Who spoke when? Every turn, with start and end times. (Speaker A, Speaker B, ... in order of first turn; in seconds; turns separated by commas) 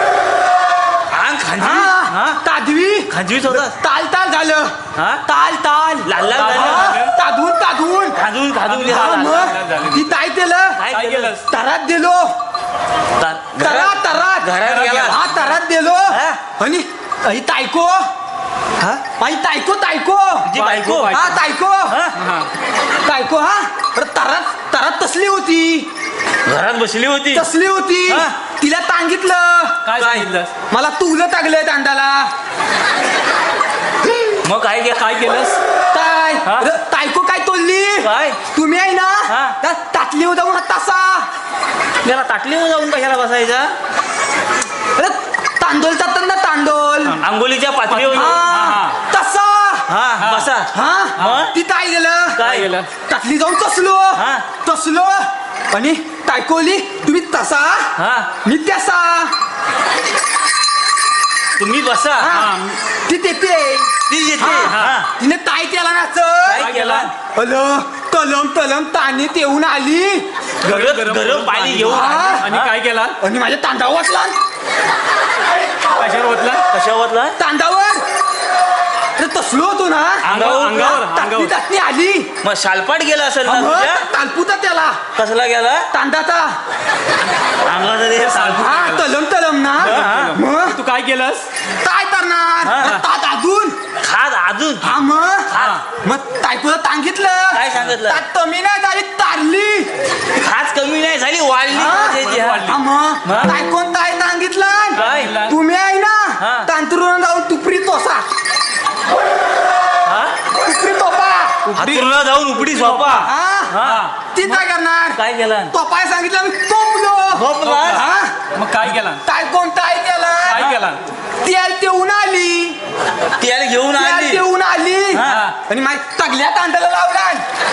Speaker A: 1.1-2.4, Speaker B: 1.6-4.7, Speaker A: 3.1-3.8, Speaker A: 5.0-5.2, Speaker B: 5.2-8.2, Speaker A: 6.0-7.0, Speaker C: 6.2-7.1, Speaker A: 8.1-9.6, Speaker B: 8.7-10.8, Speaker C: 8.8-10.1, Speaker A: 10.8-11.4, Speaker C: 10.9-11.4, Speaker B: 11.4-12.3, Speaker A: 13.2-15.2, Speaker B: 13.6-18.1, Speaker C: 14.6-15.1, Speaker A: 16.1-16.4, Speaker B: 19.2-20.5, Speaker A: 20.5-21.2, Speaker C: 20.5-21.4, Speaker B: 21.1-21.9, Speaker A: 21.9-22.2, Speaker C: 22.2-22.5, Speaker B: 23.0-25.9, Speaker A: 26.4-27.5, Speaker B: 27.3-29.8, Speaker A: 28.1-28.3, Speaker C: 29.9-30.5, Speaker A: 30.0-30.3, Speaker B: 30.7-32.3, Speaker A: 34.4-35.5, Speaker C: 35.2-35.5, Speaker B: 35.9-41.3, Speaker A: 36.5-36.7, Speaker A: 38.0-38.4, Speaker A: 39.3-39.5, Speaker A: 42.0-43.7, Speaker B: 45.0-47.2, Speaker A: 47.2-48.5, Speaker C: 47.9-49.0, Speaker B: 48.1-49.9, Speaker A: 49.9-51.5, Speaker C: 50.2-50.5, Speaker B: 50.7-52.4, Speaker A: 52.4-52.7, Speaker C: 52.4-52.9, Speaker B: 53.1-57.9, Speaker A: 54.2-54.5, Speaker A: 58.0-58.3, Speaker B: 58.4-59.3, Speaker A: 61.6-62.4, Speaker B: 62.2-66.7, Speaker C: 62.4-62.8, Speaker A: 64.1-65.1, Speaker C: 64.5-65.0, Speaker A: 66.5-67.1, Speaker C: 66.6-67.1, Speaker B: 67.3-70.3, Speaker A: 70.6-72.7, Speaker C: 70.7-73.2, Speaker B: 71.8-72.5, Speaker B: 73.2-74.4, Speaker C: 75.9-76.7, Speaker A: 76.7-77.4, Speaker B: 77.4-78.0, Speaker B: 79.2-82.3, Speaker A: 80.2-81.0, Speaker C: 80.2-81.5, Speaker A: 82.4-84.0, Speaker B: 83.5-85.0, Speaker A: 85.1-85.9, Speaker B: 85.9-86.6, Speaker A: 87.7-88.7, Speaker C: 88.1-89.0, Speaker B: 88.6-90.8, Speaker C: 89.8-91.5, Speaker A: 89.8-90.4, Speaker B: 91.8-93.8, Speaker A: 92.7-93.0, Speaker A: 94.0-95.0, Speaker B: 94.8-95.5, Speaker A: 95.5-95.8, Speaker B: 96.0-99.9, Speaker A: 97.5-98.2, Speaker A: 100.3-103.5, Speaker B: 101.7-108.2, Speaker C: 102.0-102.7, Speaker A: 105.0-105.5, Speaker C: 105.0-105.5, Speaker A: 106.4-106.7, Speaker A: 110.1-110.3, Speaker B: 110.5-112.0, Speaker A: 111.7-114.6, Speaker C: 112.7-113.1, Speaker B: 113.1-113.8, Speaker C: 113.8-114.1, Speaker B: 114.3-118.4, Speaker A: 115.2-115.7, Speaker A: 117.4-118.0, Speaker C: 117.6-118.0, Speaker C: 118.5-119.2, Speaker B: 119.2-120.7, Speaker C: 120.5-121.0, Speaker B: 121.4-122.8, Speaker A: 123.4-124.4, Speaker B: 123.9-127.4, Speaker A: 125.1-125.5, Speaker C: 125.2-125.5